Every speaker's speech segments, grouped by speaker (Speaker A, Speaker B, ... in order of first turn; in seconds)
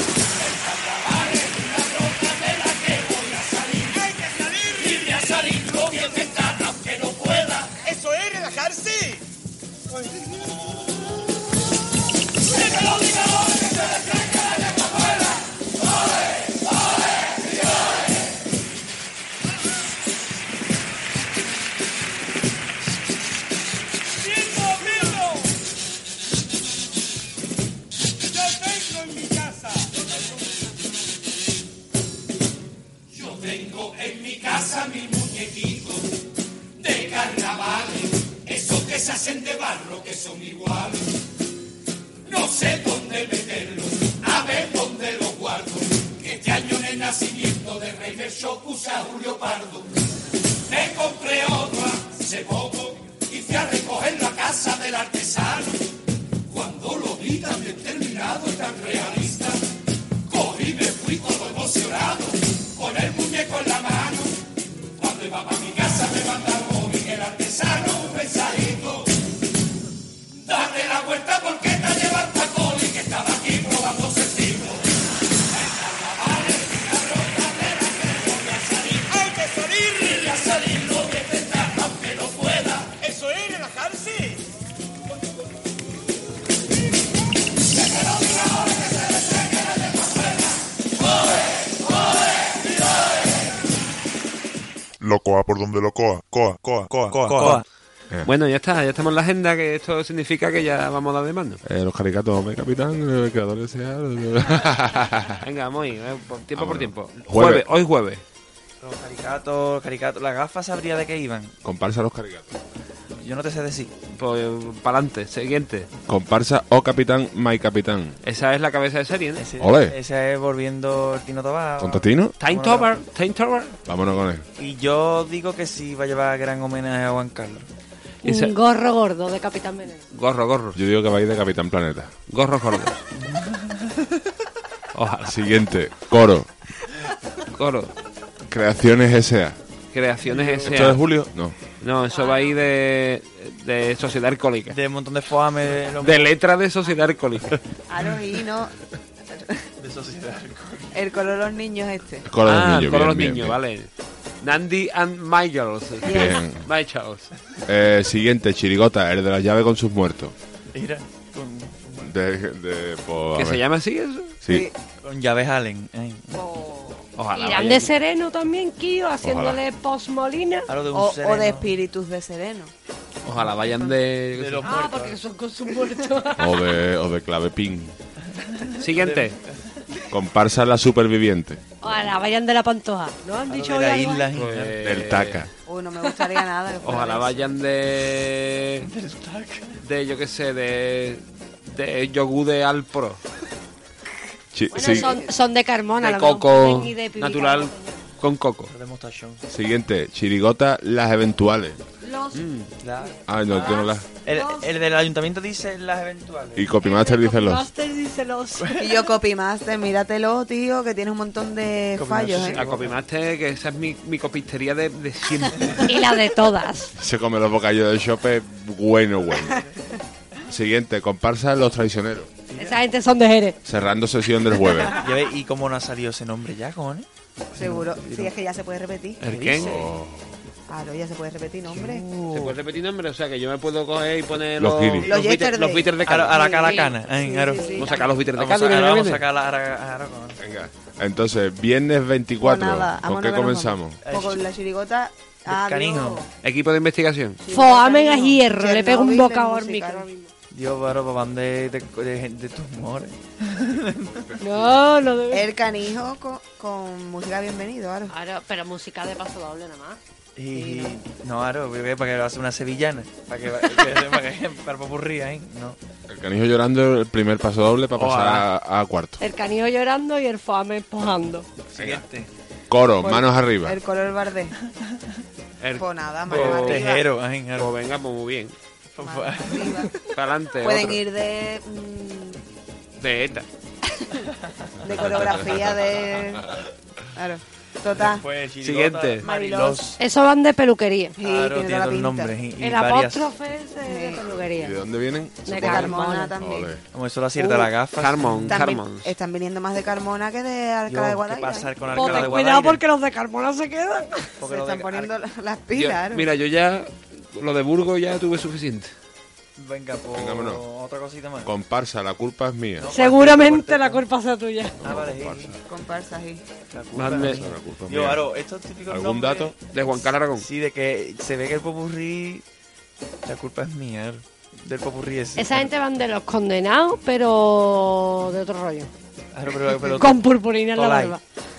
Speaker A: 0.3-9.2, 12.5-15.5, 24.5-25.1, 28.6-29.6, 33.1-36.1, 36.8-41.1, 42.3-49.9, 50.7-55.8, 56.5-59.6, 60.3-64.4, 65.0-69.1, 70.4-74.9, 75.5-84.3, 87.7-92.6
Speaker B: 95.0-97.6
Speaker C: 97.1-97.6, 108.8-111.5, 113.1-113.9, 119.4-123.0, 124.6-127.7, 133.2-134.1, 140.2-141.0, 144.7-146.3, 149.8-151.0, 160.7-162.1, 165.0-166.4, 170.7-171.7, 174.3-175.2, 178.2-179.8, 183.5-184.9, 188.8-189.8, 198.7-199.4, 202.8-206.8, 212.0-213.0, 222.5-222.8, 224.9-228.3, 229.6-229.8, 231.7-232.6, 236.0-240.4, 244.0-244.4, 245.5-246.2, 250.5-254.3, 260.4-265.8, 267.9-268.5, 271.7-272.3, 276.3-277.8, 278.9-279.9, 287.9-290.0, 291.2-293.3, 296.9-298.6, 300.9-302.8, 304.4-305.1, 309.6-311.5, 312.8-314.1, 314.8-315.6, 316.7-322.4, 323.2-325.7, 329.3-330.2, 330.8-331.2
Speaker D: 98.2-101.6, 105.4-108.2, 114.1-115.9, 118.2-119.5, 122.4-123.8, 128.2-128.6, 130.1-130.8, 132.3-133.0, 134.9-135.5, 137.5-137.9, 139.9-141.0, 141.8-144.8, 146.0-147.6, 152.4-153.9, 154.4-157.3, 163.3-164.4, 167.2-167.9, 173.2-174.7, 178.8-179.4, 184.3-185.4, 186.8-188.9, 189.8-193.2, 196.0-198.7, 202.3-202.7, 212.5-215.9, 229.2-229.8, 232.3-236.7, 237.8-239.2, 246.4-247.4, 275.6-276.9, 277.6-278.6, 280.1-281.0, 283.0-283.5, 288.6-289.2, 298.0-299.1, 305.7-308.9, 316.9-317.4, 319.7-320.5
Speaker E: 101.7-105.4, 106.6-107.6, 111.6-112.6, 116.1-118.2, 119.6-120.0, 121.8-122.3, 123.9-124.5, 130.8-132.1, 135.3-136.5, 138.5-139.6, 140.6-141.6, 152.3-153.6, 156.1-156.7, 157.7-160.3, 162.0-163.6, 164.4-164.7, 169.2-169.6, 176.4-177.9, 180.1-181.6, 184.8-185.5, 194.5-195.2, 199.5-201.8, 203.3-204.1, 206.6-207.7, 217.0-219.7, 220.5-222.3, 223.6-225.0, 229.6-230.3, 234.6-235.1, 240.4-244.0, 254.1-254.9, 266.1-269.2, 271.8-272.0, 272.7-273.8, 285.0-285.7, 294.5-296.8, 310.1-310.6, 311.4-312.9, 314.8-315.6, 317.1-318.3, 318.9-319.5
Speaker F: 128.2-130.0, 142.1-142.6, 167.3-170.7, 174.6-176.6, 181.8-184.3, 194.7-198.0, 202.0-202.4, 203.0-204.7, 206.8-208.9, 215.8-216.9, 222.5-223.6, 236.6-237.9, 247.5-250.3, 254.4-255.5, 258.1-260.0, 269.2-271.5, 290.0-291.2, 292.6-294.8, 295.4-296.3, 301.9-304.3, 312.9-314.8, 325.4-328.9, 330.0-331.2
Speaker G: 147.9-148.7, 149.3-149.6, 150.9-152.2, 164.5-164.7, 166.3-167.0, 170.9-172.7, 185.7-187.5, 208.8-212.6, 227.6-229.6, 230.7-232.1, 235.1-238.1, 242.4-246.3, 247.4-250.1, 255.3-258.1, 260.6-261.0, 273.6-274.6, 275.8-277.1, 279.0-280.0, 280.6-282.4, 284.8-286.5, 287.1-288.3, 289.2-289.9, 291.2-292.4, 293.9-294.2, 295.5-296.7, 297.4-297.7, 298.5-302.3, 304.4-306.3, 315.7-316.4